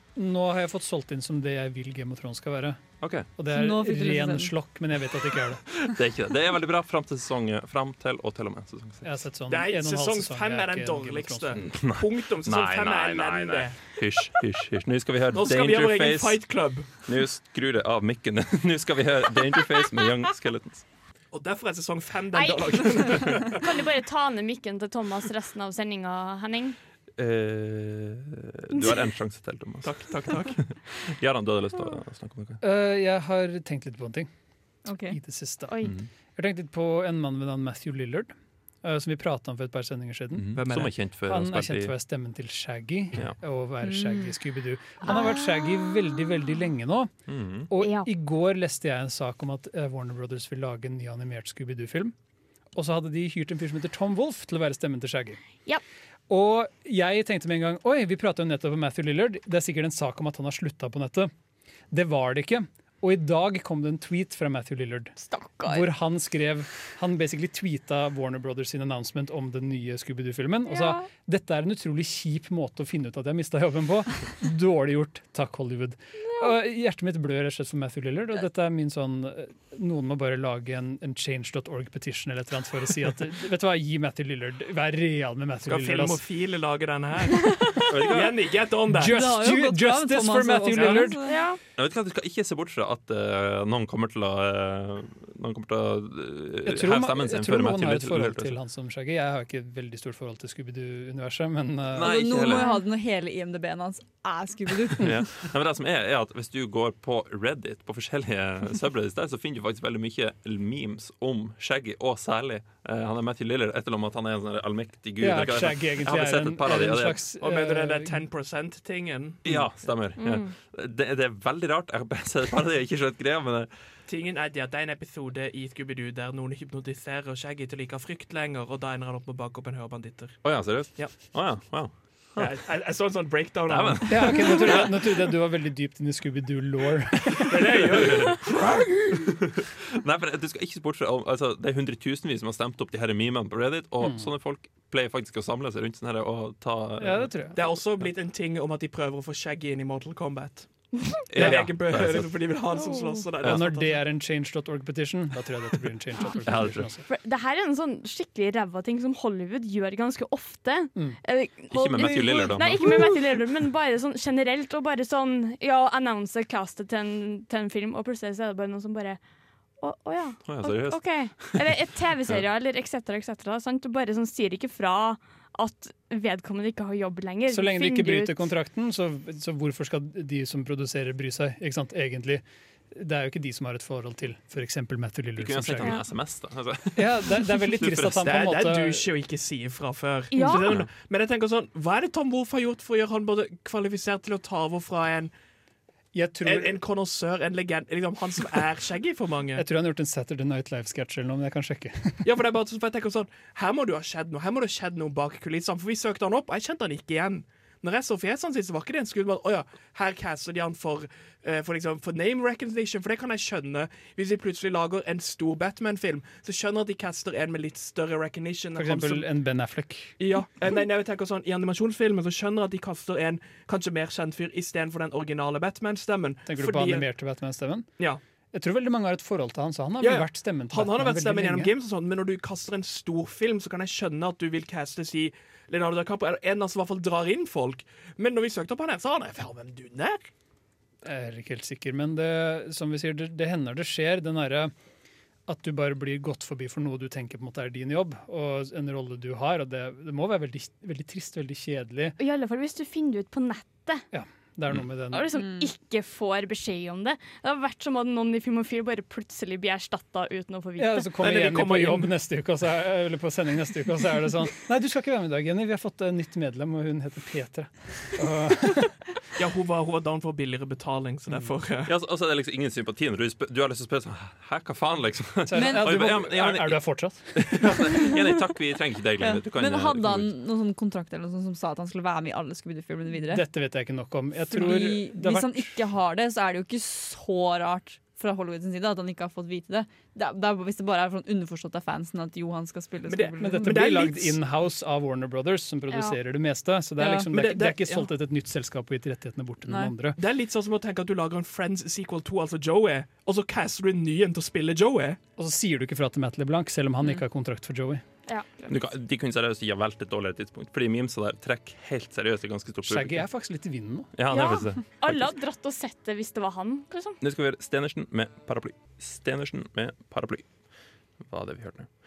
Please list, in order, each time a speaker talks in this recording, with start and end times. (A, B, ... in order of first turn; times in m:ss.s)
0:00.2-0:02.8 A
0:03.0-0:03.3 B
0:03.4-0:05.8 A
0:03.5-0:04.5 C
0:05.8-0:09.1 B
0:09.0-0:11.6 A
0:09.5-0:13.8 D
0:11.6-0:16.4 B
0:15.3-0:16.9 D
0:17.0-0:20.8 B
0:21.3-0:23.7 D
0:22.3-0:26.8 E
0:27.2-0:30.0 B
0:29.8-0:30.6 D
0:30.7-0:32.6 B
0:32.6-0:34.3 A
0:34.8-0:35.2 C
0:35.1-0:40.6 A
0:40.4-0:41.9 B
0:40.5-0:40.9 D
0:41.2-0:47.1 A
0:43.8-0:44.3 C
0:47.3-0:47.7 B
0:47.7-0:52.1 A
0:47.8-0:48.1 E
0:52.7-0:55.4 A
0:56.3-1:01.3 A
1:01.9-1:26.2 A
1:05.2-1:05.9 E
1:10.6-1:11.0 E
1:25.7-1:29.2 D
1:27.9-1:28.5 B
1:28.9-1:31.3 A
1:29.0-1:31.4 C
1:31.2-1:31.6 E
1:31.8-1:38.6 B
1:36.6-1:42.1 A
1:41.9-1:42.7 B
1:42.0-1:45.2 C
1:42.6-1:42.8 E
1:45.0-1:57.2 B
1:55.2-1:58.2 A
1:57.4-1:59.7 D
1:59.4-2:03.7 B
2:00.2-2:00.5 E
2:04.1-2:10.4 D
2:10.4-2:12.5 B
2:12.4-2:14.4 D
2:13.7-2:15.0 B
2:14.1-2:18.1 A
2:17.4-2:18.8 D
2:17.9-2:18.3 B
2:19.1-2:27.3 B
2:24.0-2:24.3 A
2:27.0-2:27.6 A
2:27.5-2:30.7 D
2:31.3-2:32.3 B
2:31.3-2:34.0 D
2:32.7-2:33.2 E
2:33.4-2:37.0 A
2:36.4-2:36.8 B
2:37.1-2:49.2 E
2:41.7-2:43.3 B
2:49.8-2:58.5 E
2:50.5-2:51.6 B
2:57.5-3:06.0 A
3:05.4-3:08.2 B
3:07.0-3:09.1 A
3:08.1-3:15.3 D
3:10.3-3:10.8 E
3:16.1-3:16.8 A
3:16.4-3:19.6 D
3:19.6-3:22.2 A
3:22.2-3:39.2 D
3:38.8-3:40.2 A
3:40.2-3:47.0 D
3:46.4-3:47.9 A
3:48.5-3:51.7 A
3:50.0-4:00.3 D
4:01.0-4:04.7 A
4:05.5-4:12.2 A
4:12.2-4:14.0 E
4:14.1-4:15.3 A
4:15.1-4:21.1 E
4:20.8-4:29.0 A
4:21.2-4:22.1 D
4:29.4-4:31.9 D
4:31.8-4:40.3 B
4:35.5-4:37.9 A
4:35.5-4:35.9 C
4:39.2-4:43.4 C
4:43.2-4:45.8 A
4:44.5-4:53.8 C
4:53.1-4:54.4 D
4:53.4-5:00.2 A
4:55.9-4:56.2 E
4:57.0-4:58.1 D
4:59.6-4:59.9 C
5:00.2-5:05.2 D
5:05.4-5:08.0 A
5:08.3-5:08.7 E
5:08.7-5:13.2 B
5:12.8-5:14.1 A
5:14.2-5:15.3 B
5:14.3-5:17.2 E
5:17.2-5:20.5 B
5:21.2-5:21.9 B